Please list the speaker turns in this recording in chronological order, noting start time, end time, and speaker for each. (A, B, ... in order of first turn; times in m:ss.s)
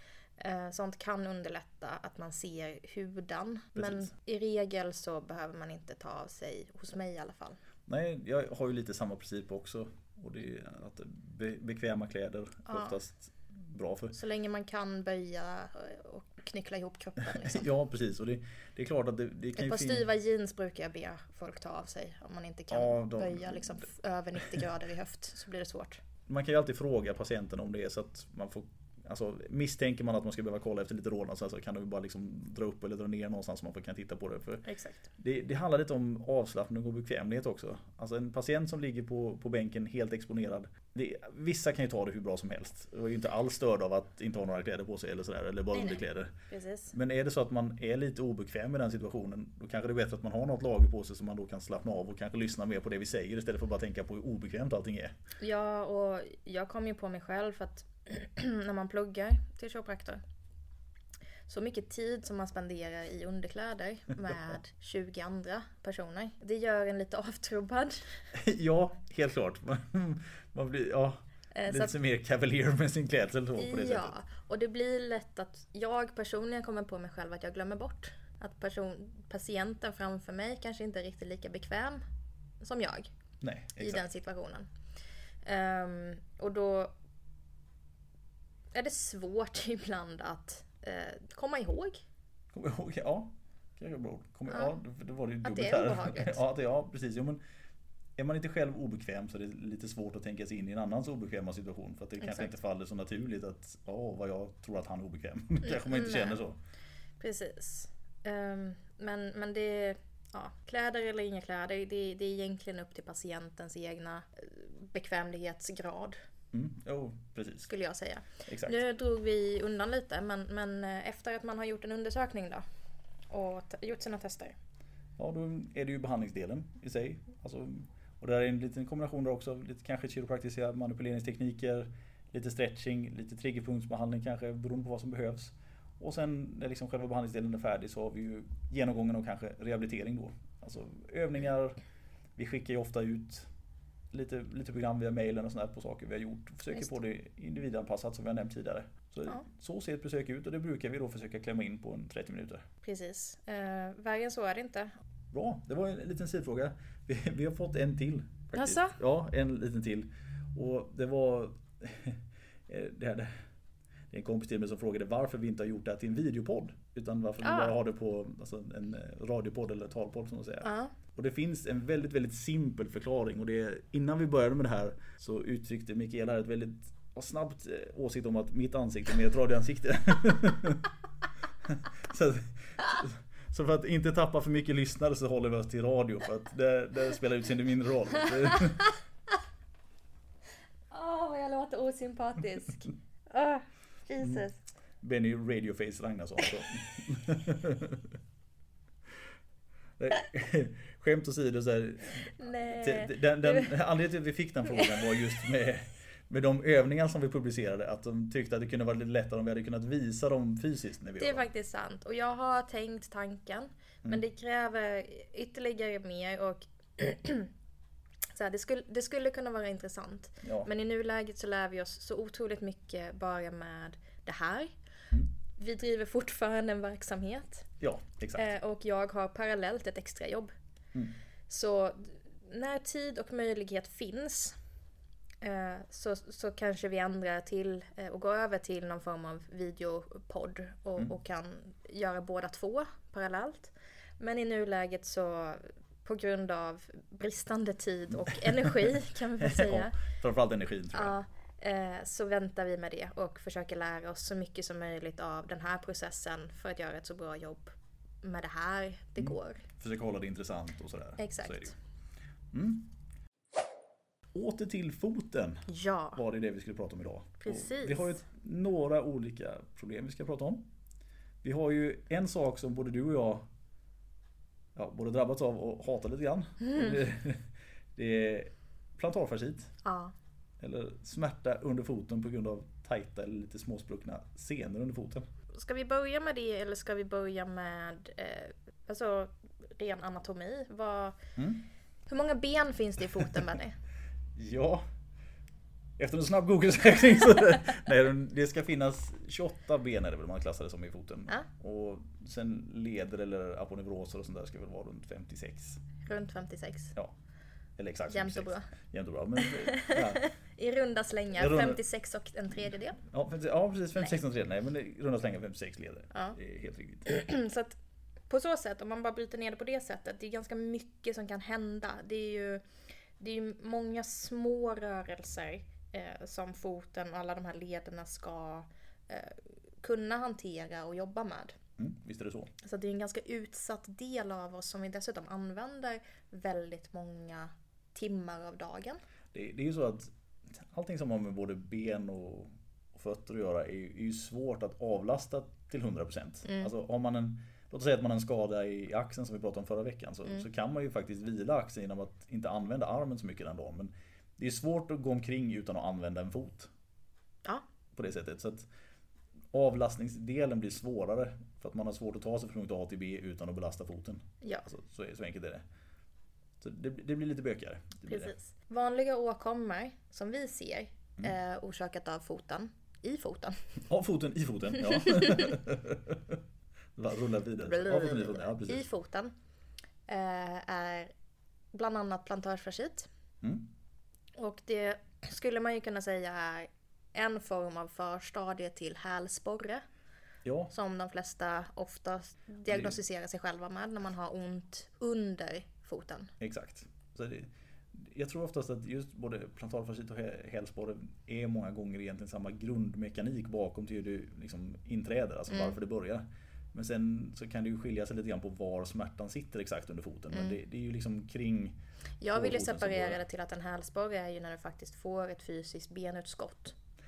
0:00.4-0:07.6 A
0:03.8-0:04.1 B
0:07.9-0:14.1 B
0:12.7-0:13.0 A
0:14.1-0:17.7 A
0:17.4-0:20.0 B
0:19.6-0:26.0 A
0:22.7-0:23.8 B
0:26.3-0:34.6 B
0:34.6-0:35.0 A
0:35.2-0:46.3 B
0:45.7-0:46.9 A
0:46.9-0:55.1 B
0:55.4-1:00.2 A
1:01.5-1:08.3 A
1:08.3-1:14.1 B
1:11.5-1:11.9 A
1:13.6-1:22.0 A
1:22.6-1:23.1 A
1:23.4-1:24.0 B
1:23.8-1:24.7 A
1:25.4-1:26.9 A
1:28.7-1:32.0 A
1:32.5-1:37.4 B
1:34.5-1:34.7 A
1:35.4-1:36.4 A
1:38.2-1:46.6 B
1:42.2-1:42.5 A
1:45.6-1:46.4 A
1:47.2-1:56.2 A
1:56.5-1:57.7 B
1:57.7-2:02.6 A
1:58.4-1:58.8 B
2:03.3-2:04.6 A
2:05.2-2:21.8 B
2:22.4-2:23.5 B
2:24.1-2:32.6 B
2:32.8-2:34.9 A
2:35.3-2:43.4 B
2:38.5-2:39.0 A
2:44.1-3:00.9 B
2:47.4-2:47.7 A
2:50.6-2:50.9 A
3:01.6-3:08.8 B
3:10.9-3:14.6 A
3:15.0-3:18.2 B
3:20.0-3:31.5 B
3:22.3-3:23.7 A
3:24.7-3:25.1 A
3:31.2-3:37.5 A
3:38.3-3:44.7 A
3:40.4-3:40.7 B
3:45.5-3:47.7 A
3:47.8-3:48.5 B
3:48.4-3:50.5 A
3:51.5-3:54.6 A
3:55.4-4:09.9 A
4:08.4-4:11.1 B
4:10.9-4:19.6 A
4:19.2-4:21.7 B
4:21.2-4:21.7 A
4:22.5-4:22.9 B
4:24.3-4:30.7 B
4:25.7-4:26.2 A
4:27.4-4:28.2 A
4:31.4-4:33.5 B
4:34.7-4:39.8 B
4:36.6-4:37.0 A
4:39.8-4:40.1 A
4:40.6-4:45.2 B
4:45.5-4:51.2 A
4:51.4-4:51.6 B
4:52.1-4:53.8 A
4:54.4-4:54.8 B
4:56.0-5:05.8 B
5:06.0-5:06.9 A
5:07.8-5:10.2 B
5:08.1-5:08.7 A
5:09.4-5:13.0 A
5:11.4-5:11.8 B
5:13.0-5:17.1 B
5:17.0-5:17.8 A
5:18.3-5:22.6 A
5:23.2-5:31.6 A
5:31.8-5:32.5 B
5:32.6-5:39.0 A
5:39.3-5:56.7 B
5:46.4-5:46.7 A
5:57.9-5:58.7 B
5:59.5-6:05.6 B
6:06.6-6:08.3 B
6:08.1-6:13.8 A
6:13.8-6:16.4 B
6:15.0-6:15.6 A
6:17.0-6:18.8 B
6:17.6-6:19.3 A
6:20.1-6:21.1 A
6:21.7-6:23.1 A
6:23.4-6:23.7 B
6:24.4-6:29.8 A
6:30.4-6:30.7 B
6:30.7-6:36.3 A
6:32.7-6:32.9 B
6:36.4-6:51.8 B
6:45.5-6:45.8 A
6:52.2-6:56.7 A
6:52.3-6:53.2 B